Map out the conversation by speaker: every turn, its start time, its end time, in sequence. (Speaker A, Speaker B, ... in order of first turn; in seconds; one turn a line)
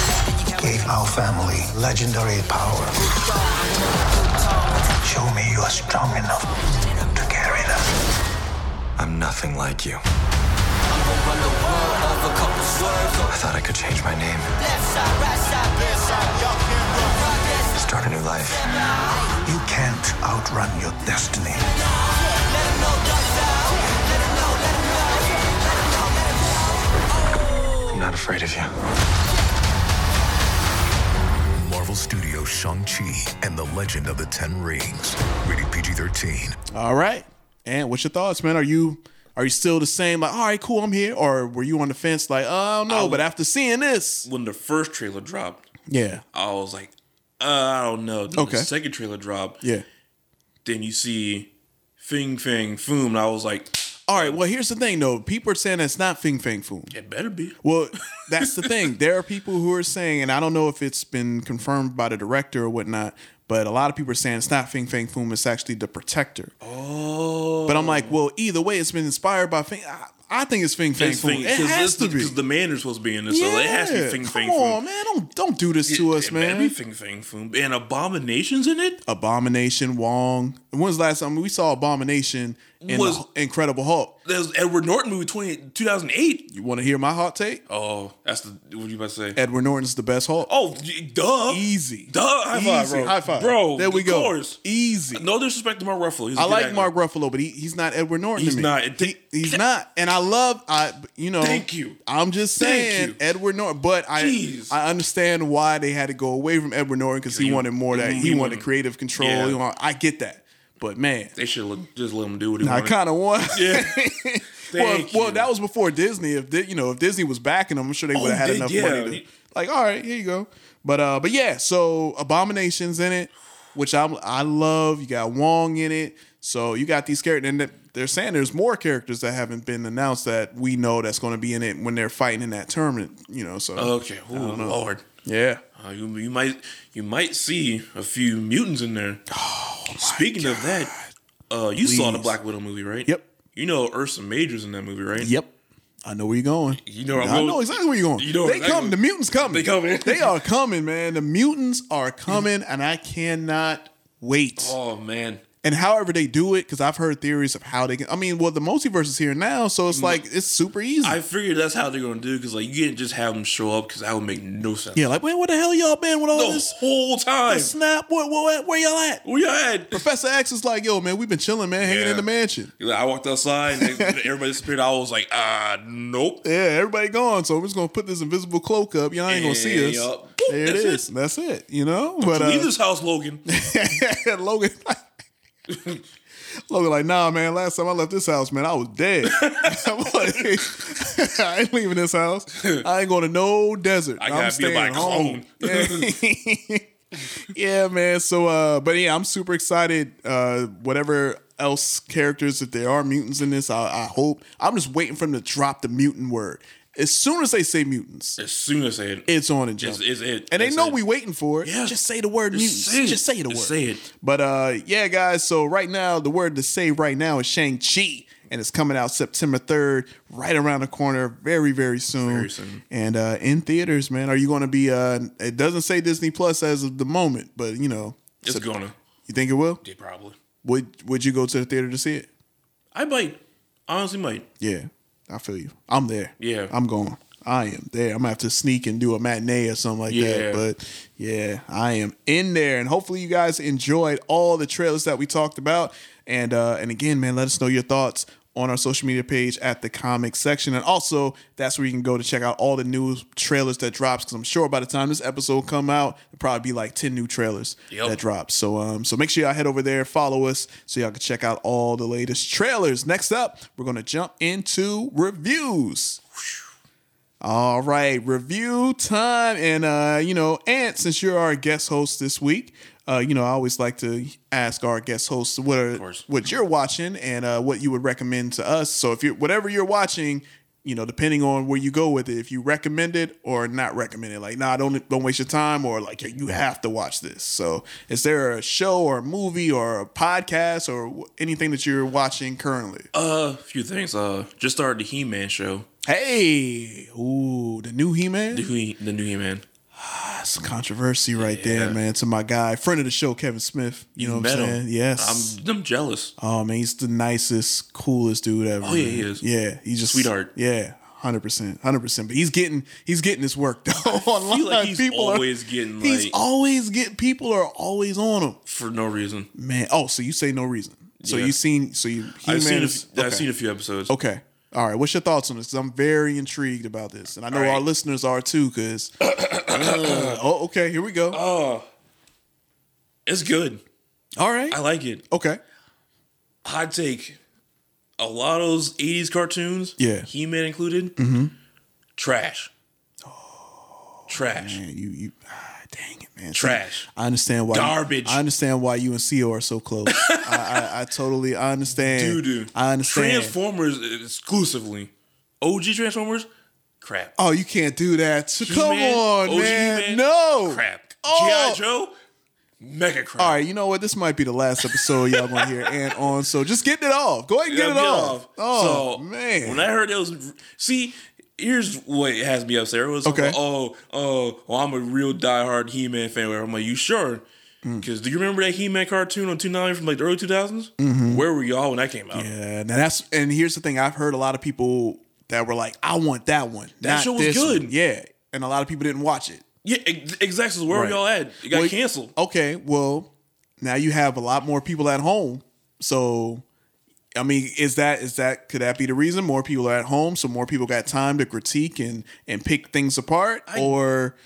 Speaker A: 0.5-3.4
Speaker A: 5.0-7.9
Speaker B: 9.0-10.0
Speaker B: 13.2-14.5
Speaker B: 17.7-18.6
Speaker A: 19.4-21.7
Speaker B: 27.9-28.7
Speaker C: 31.6-36.5
Speaker D: 36.7-44.3
Speaker E: 42.9-43.3
Speaker E: 44.2-45.7
Speaker D: 45.9-46.2
Speaker E: 46.3-49.6
Speaker D: 48.3-48.7
Speaker E: 50.6-54.4
Speaker D: 54.1-56.9
Speaker E: 56.9-57.6
Speaker D: 57.6-66.5
Speaker E: 58.4-58.8
Speaker E: 66.6-68.2
Speaker D: 67.7-72.3
Speaker E: 71.0-74.8
Speaker D: 73.3-76.7
Speaker E: 75.8-79.0
Speaker D: 79.0-84.2
Speaker E: 82.8-83.2
Speaker E: 84.2-86.5
Speaker D: 86.5-87.6
Speaker E: 87.7-89.4
Speaker D: 89.3-90.5
Speaker E: 90.5-94.6
Speaker D: 91.5-95.2
Speaker E: 95.1-96.9
Speaker D: 96.3-111.3
Speaker E: 98.3-99.6
Speaker E: 101.4-102.0
Speaker E: 102.6-103.2
Speaker E: 104.2-104.8
Speaker E: 107.3-109.6
Speaker E: 111.3-113.0
Speaker D: 112.6-135.6
Speaker E: 113.5-114.0
Speaker E: 114.7-115.5
Speaker E: 118.1-119.3
Speaker E: 133.8-135.0
Speaker E: 135.8-139.2
Speaker D: 139.3-141.1
Speaker E: 139.9-140.9
Speaker E: 141.5-145.3
Speaker D: 141.8-142.3
Speaker D: 145.2-145.5
Speaker D: 146.0-154.8
Speaker E: 146.7-150.3
Speaker E: 154.6-155.4
Speaker D: 155.6-161.2
Speaker E: 159.9-160.2
Speaker E: 161.0-165.1
Speaker D: 164.9-166.7
Speaker E: 166.3-167.7
Speaker D: 167.5-169.2
Speaker E: 169.2-170.0
Speaker D: 169.9-172.7
Speaker E: 171.8-172.3
Speaker E: 172.8-176.4
Speaker D: 173.8-174.2
Speaker D: 176.4-182.7
Speaker E: 179.3-181.1
Speaker E: 182.2-183.4
Speaker D: 183.5-185.0
Speaker E: 185.7-186.0
Speaker D: 186.7-196.8
Speaker E: 189.2-190.6
Speaker E: 192.5-192.8
Speaker E: 194.2-196.1
Speaker D: 197.4-208.4
Speaker E: 208.4-209.3
Speaker D: 209.3-228.7
Speaker E: 209.8-211.0
Speaker E: 211.6-211.9
Speaker E: 212.5-214.1
Speaker E: 222.2-222.8
Speaker E: 228.4-228.9
Speaker D: 229.3-229.8
Speaker E: 229.8-230.4
Speaker D: 230.6-232.3
Speaker E: 232.9-234.4
Speaker D: 234.6-266.2
Speaker E: 236.4-236.7
Speaker E: 240.1-240.6
Speaker E: 257.9-258.2
Speaker E: 266.4-266.6
Speaker D: 267.4-293.1
Speaker E: 275.9-276.2
Speaker E: 293.1-295.9
Speaker D: 296.1-298.7
Speaker E: 298.5-299.6
Speaker D: 300.0-305.6
Speaker E: 301.4-302.0
Speaker E: 304.2-306.3
Speaker D: 306.4-315.5
Speaker E: 308.8-309.4
Speaker E: 310.0-310.5
Speaker E: 314.1-316.4
Speaker D: 316.0-318.6
Speaker E: 318.6-319.5
Speaker D: 319.5-323.5
Speaker E: 321.2-321.6
Speaker E: 322.4-324.1
Speaker D: 324.1-329.1
Speaker E: 327.5-327.8
Speaker E: 329.2-330.4
Speaker D: 329.6-331.4
Speaker E: 331.3-331.9
Speaker E: 333.2-333.8
Speaker D: 334.4-335.6
Speaker E: 334.7-335.2
Speaker E: 336.6-337.4
Speaker E: 338.2-341.1
Speaker D: 340.0-340.3
Speaker D: 341.2-341.5
Speaker E: 342.1-342.7
Speaker D: 343.2-353.6
Speaker E: 344.3-344.8
Speaker E: 346.5-347.1
Speaker E: 347.7-348.4
Speaker E: 350.1-350.9
Speaker E: 351.9-356.5
Speaker E: 357.0-357.3
Speaker D: 357.4-361.8
Speaker E: 358.6-362.1
Speaker E: 362.8-363.6
Speaker D: 363.4-369.9
Speaker E: 364.9-365.9
Speaker E: 367.7-377.4
Speaker D: 373.2-373.6
Speaker E: 378.0-382.5
Speaker D: 381.0-381.4
Speaker D: 382.3-389.6
Speaker E: 387.0-387.9
Speaker E: 389.8-392.3
Speaker D: 390.9-396.6
Speaker D: 397.4-404.3
Speaker E: 403.7-404.0